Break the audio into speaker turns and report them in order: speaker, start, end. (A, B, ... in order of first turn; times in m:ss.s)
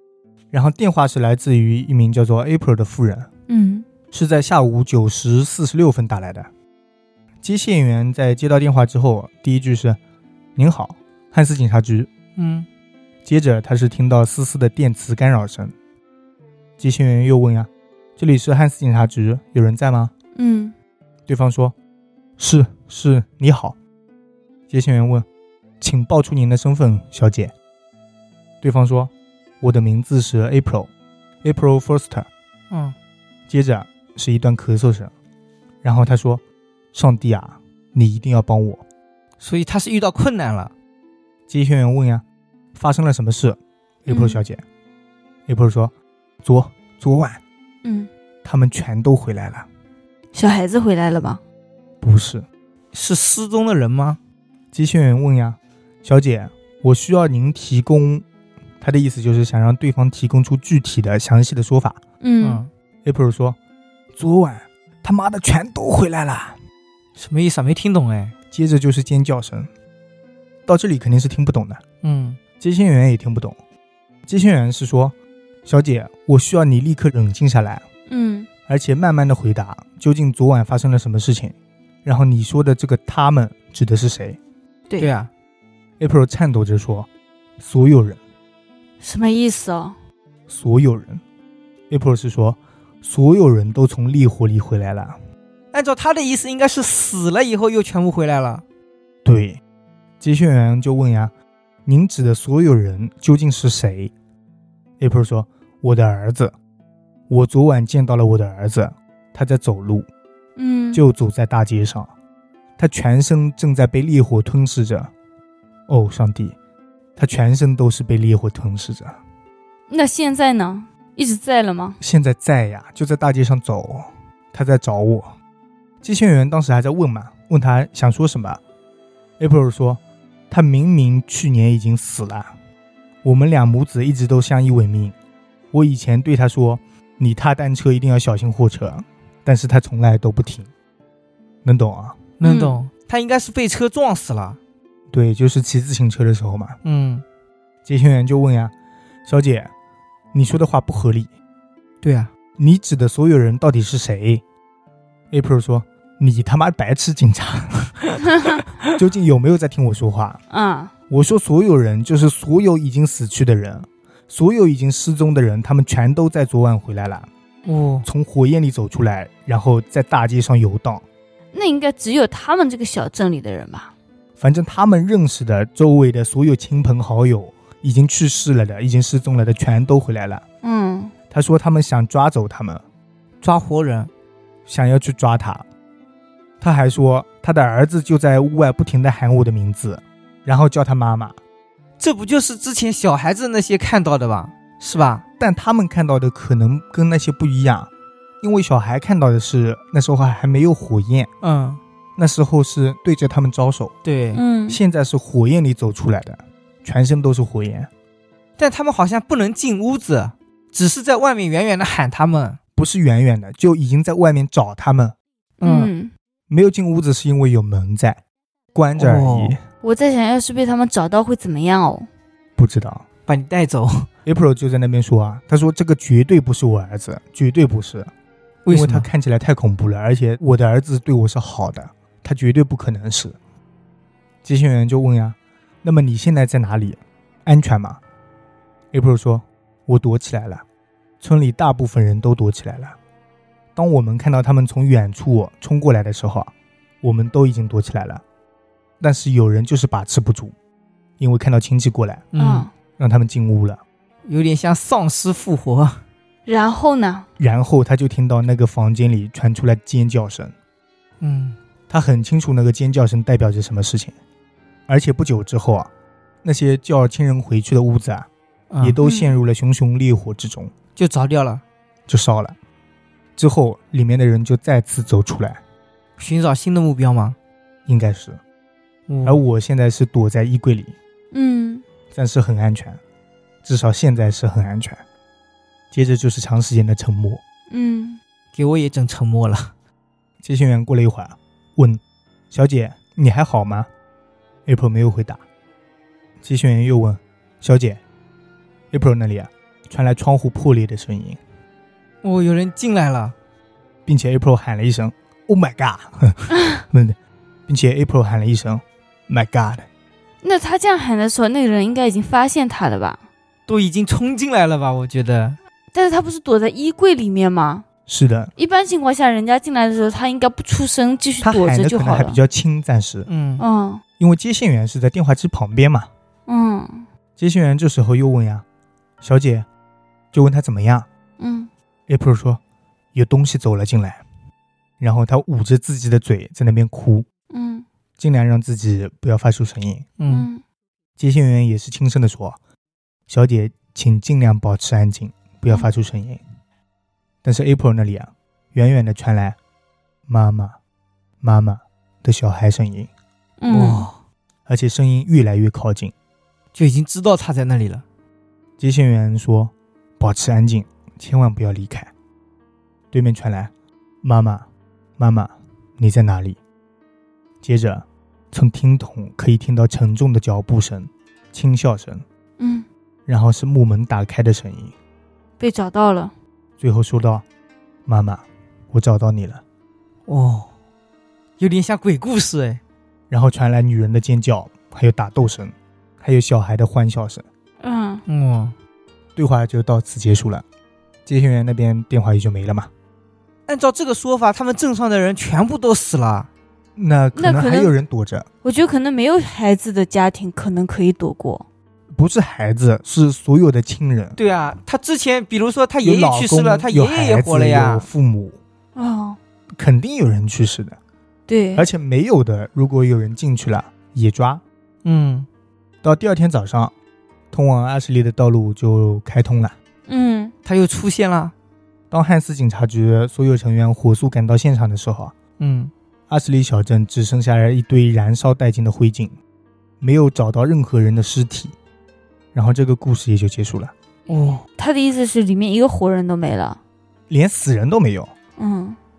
0:00.5-0:03.3 A
0:03.5-0:03.9 B
0:04.1-0:06.5 A
0:07.4-0:10.0 A
0:10.6-0:12.1 A
0:12.4-0:12.6 C
0:13.2-0:15.7 A
0:16.8-0:20.1 A
0:20.3-0:20.7 B
0:21.3-0:21.7 A
0:22.4-0:23.8 A
0:24.7-0:25.2 A
0:25.8-0:27.5 A
0:28.6-0:30.9 A
0:31.4-0:32.3 A
0:32.7-0:33.0 C
0:33.5-0:35.1 A
0:35.8-0:36.4 A
0:36.9-0:38.8 A
0:39.4-0:40.7 C
0:41.5-0:42.2 A
0:42.7-0:44.6 A
0:44.1-0:44.4 B
0:45.5-0:45.9 A
0:46.4-0:47.4 A
0:47.8-0:48.1 B
0:48.4-0:49.6 A
0:50.3-0:51.4 B
0:52.0-0:52.4 A
0:52.9-0:54.2 C
0:54.7-0:58.2 A
0:58.8-1:02.0 A
1:02.2-1:02.6 B
1:02.4-1:02.7 C
1:03.0-1:03.6 A
1:04.1-1:06.6 A
1:07.2-1:08.3 C
1:08.5-1:09.7 A
1:10.6-1:11.8 A
1:12.0-1:12.4 C
1:12.6-1:13.6 A
1:14.3-1:17.8 A
1:18.1-1:18.5 B
1:18.7-1:24.4 A
1:25.0-1:25.3 C
1:26.0-1:27.1 A
1:27.6-1:28.2 A
1:29.0-1:30.0 B
1:30.5-1:31.2 A
1:31.9-1:35.2 A
1:35.7-1:38.6 C
1:39.2-1:39.6 A
1:40.2-1:41.3 A
1:41.8-1:44.1 A
1:45.0-1:46.5 A
1:47.3-1:50.1 A
1:50.6-1:51.0 B
1:50.9-1:52.1 A
1:52.8-1:55.1 A
1:55.9-1:56.5 A
1:57.2-1:59.2 A
1:59.9-2:02.0 B
2:02.0-2:05.3 A
2:06.0-2:08.6 A
2:09.4-2:12.5 A
2:13.2-2:15.1 A
2:15.7-2:20.7 A
2:21.6-2:22.2 A
2:22.4-2:24.6 C
2:22.4-2:22.8 B
2:25.1-2:26.8 A
2:26.8-2:27.2 C
2:27.8-2:28.7 A
2:29.2-2:29.7 A
2:30.3-2:31.3 A
2:32.0-2:32.3 C
2:32.6-2:34.4 A
2:35.3-2:38.3 A
2:38.9-2:40.4 A
2:40.5-2:40.9 B
2:41.1-2:47.3 A
2:47.6-2:48.0 C
2:48.0-2:51.0 A
2:51.5-2:53.9 B
2:54.4-3:00.4 A
3:00.6-3:01.1 B
3:01.3-3:02.8 A
3:03.4-3:04.1 C
3:04.6-3:05.6 A
3:06.6-3:11.4 A
3:12.0-3:15.2 C
3:15.4-3:17.9 A
3:18.4-3:21.3 A
3:21.4-3:21.8 C
3:22.2-3:23.9 A
3:24.0-3:24.4 C
3:24.3-3:24.8 B
3:24.7-3:27.9 A
3:28.6-3:32.6 C
3:32.8-3:35.1 A
3:35.6-3:36.1 B
3:35.6-3:35.9 C
3:36.5-3:38.2 A
3:38.7-3:39.6 A
3:39.0-3:39.6 C
3:39.8-3:42.1 B
3:42.6-3:43.0 A
3:43.3-3:44.1 C
3:44.2-3:48.1 A
3:48.6-3:49.1 C
3:48.7-3:53.4 A
3:54.4-3:58.0 A
3:58.9-4:00.6 A
4:01.2-4:03.0 A
4:03.7-4:08.2 A
4:09.0-4:10.5 A
4:11.2-4:12.3 A
4:12.3-4:12.7 C
4:12.4-4:12.7 B
4:13.0-4:13.8 A
4:14.2-4:16.0 C
4:16.4-4:17.3 B
4:17.4-4:20.5 A
4:21.2-4:21.6 C
4:21.9-4:24.1 A
4:24.9-4:25.9 A
4:26.4-4:28.3 A
4:28.7-4:29.0 C
4:28.8-4:30.7 A
4:29.0-4:29.3 B
4:31.0-4:31.6 C
4:32.1-4:32.6 A
4:33.4-4:35.6 A
4:36.2-4:37.4 C
4:37.8-4:38.4 A
4:39.1-4:39.4 C
4:39.2-4:40.9 A
4:41.3-4:41.8 B
4:42.1-4:43.0 A
4:43.6-4:45.0 A
4:45.9-4:47.4 A
4:47.7-4:48.2 B
4:48.5-4:49.7 C
4:50.4-4:53.9 A
4:54.6-4:55.4 A
4:56.4-4:58.0 A
4:58.9-5:01.4 A
5:02.2-5:03.3 C
5:04.0-5:07.2 A
5:07.7-5:09.8 A
5:10.4-5:13.2 B
5:13.7-5:15.6 C
5:15.9-5:17.8 B
5:18.1-5:18.5 A
5:18.6-5:22.4 B
5:21.4-5:23.3 A
5:23.3-5:23.6 C
5:23.6-5:24.0 B
5:24.2-5:26.1 A
5:26.5-5:27.1 B
5:27.4-5:28.6 A
5:29.2-5:29.6 A
5:30.3-5:31.1 A
5:31.4-5:31.7 B
5:32.1-5:32.6 A
5:33.1-5:34.2 A
5:35.0-5:37.2 A
5:37.5-5:37.8 B
5:38.2-5:40.1 A
5:40.2-5:40.5 C
5:40.3-5:40.6 B
5:41.2-5:42.6 A
5:43.3-5:46.4 A
5:47.4-5:49.6 A
5:50.3-5:50.8 A
5:51.4-5:53.1 A
5:53.6-5:54.1 B
5:53.7-5:54.1 C
5:54.6-5:56.1 A
5:56.7-5:58.0 C
5:58.8-6:02.1 A
6:03.1-6:03.7 A
6:04.2-6:04.6 A
6:05.2-6:06.6 A
6:07.6-6:12.2 A
6:12.6-6:12.9 B
6:13.3-6:14.9 A
6:15.6-6:16.3 B
6:16.8-6:17.4 A
6:18.0-6:19.6 A
6:20.3-6:20.7 C
6:21.6-6:22.8 C
6:23.3-6:27.4 A
6:27.8-6:28.2 B
6:28.3-6:28.7 C
6:29.4-6:30.6 A
6:31.2-6:32.9 A
6:33.7-6:36.5 C
6:37.0-6:38.4 A
6:37.3-6:37.9 B
6:38.6-6:41.6 B
6:42.2-6:44.4 A
6:44.4-6:48.1 C
6:46.0-6:48.6 A
6:48.9-6:49.4 B
6:49.8-6:51.0 A
6:51.5-6:51.9 B
6:51.7-6:54.6 A
6:55.0-6:55.5 C
6:56.0-6:56.9 A
6:57.5-6:59.7 A
7:00.1-7:00.5 B
7:00.6-7:01.5 C
7:02.1-7:05.3 A
7:05.6-7:05.9 C
7:06.3-7:09.3 A
7:10.0-7:11.7 A
7:12.5-7:13.9 A
7:14.3-7:14.6 C
7:14.8-7:16.8 B
7:17.3-7:18.3 A
7:18.6-7:19.0 B